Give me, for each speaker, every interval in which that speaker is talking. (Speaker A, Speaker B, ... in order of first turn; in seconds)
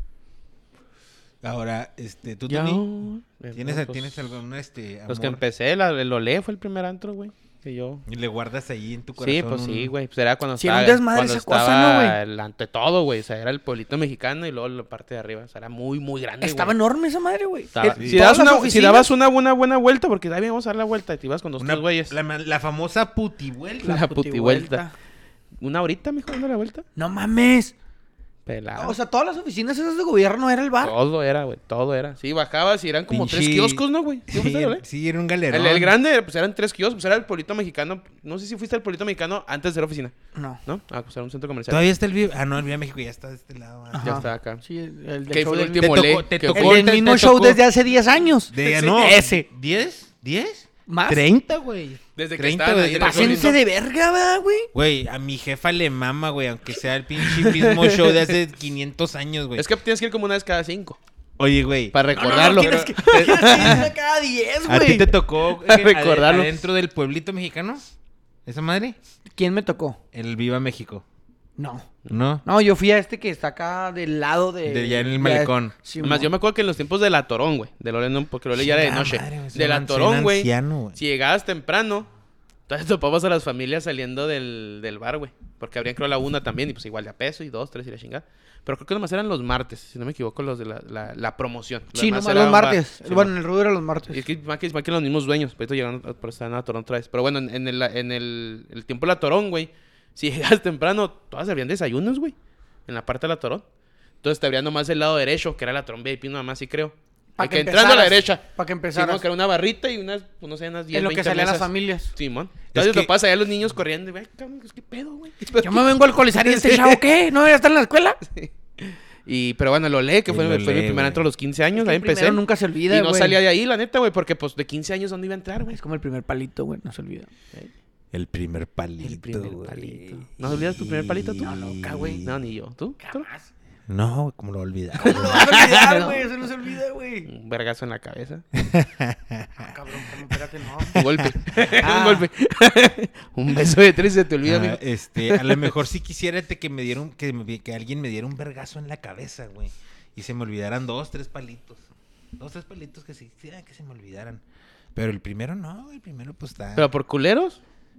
Speaker A: 1.4-2.8, 3.5-5.4, 8.1-9.9, 17.9-18.2, 21.6-24.1, 33.1-35.9, 41.7-44.3, 45.8-47.6, 48.5-53.5, 54.7-59.6, 61.4-63.9, 64.6-67.9, 68.5-69.0, 70.1-71.0, 72.1-72.4, 74.7-75.7, 78.5-81.0, 112.7-113.1, 120.3-121.2, 128.1-132.3, 133.9-135.7, 138.5-139.7, 140.9-141.6, 144.4-151.8, 152.4-154.4, 154.9-156.9
Speaker B: 2.5-4.3, 5.1-8.0, 9.2-16.7, 17.7-22.1, 23.8-24.8, 25.6-26.8, 28.4-29.0, 30.8-34.8, 35.5-41.8, 44.0-44.6, 45.3-46.9, 52.1-53.6, 57.2-58.1, 59.5-61.0, 61.9-63.9, 65.5-66.6, 76.0-82.1, 82.7-93.3, 94.1-102.3, 102.9-103.6, 104.2-117.0, 118.3-125.8, 129.0-131.5, 132.2-133.3, 135.0-136.2, 137.2-138.4, 140.9-145.7, 156.8-157.6
Speaker C: 10.6-12.2, 16.4-19.1, 23.8-24.9, 26.9-27.7, 28.8-30.9, 40.3-40.6, 43.9-49.5, 50.9-51.2, 53.0-54.7, 62.1-65.1, 69.3-70.0, 71.6-76.3, 91.9-94.2, 107.4-109.2, 110.9-112.1, 115.6-118.2, 121.7-123.4, 125.7-127.3, 131.4-132.2, 133.0-133.5, 135.0-137.3, 139.6-141.0, 141.7-142.2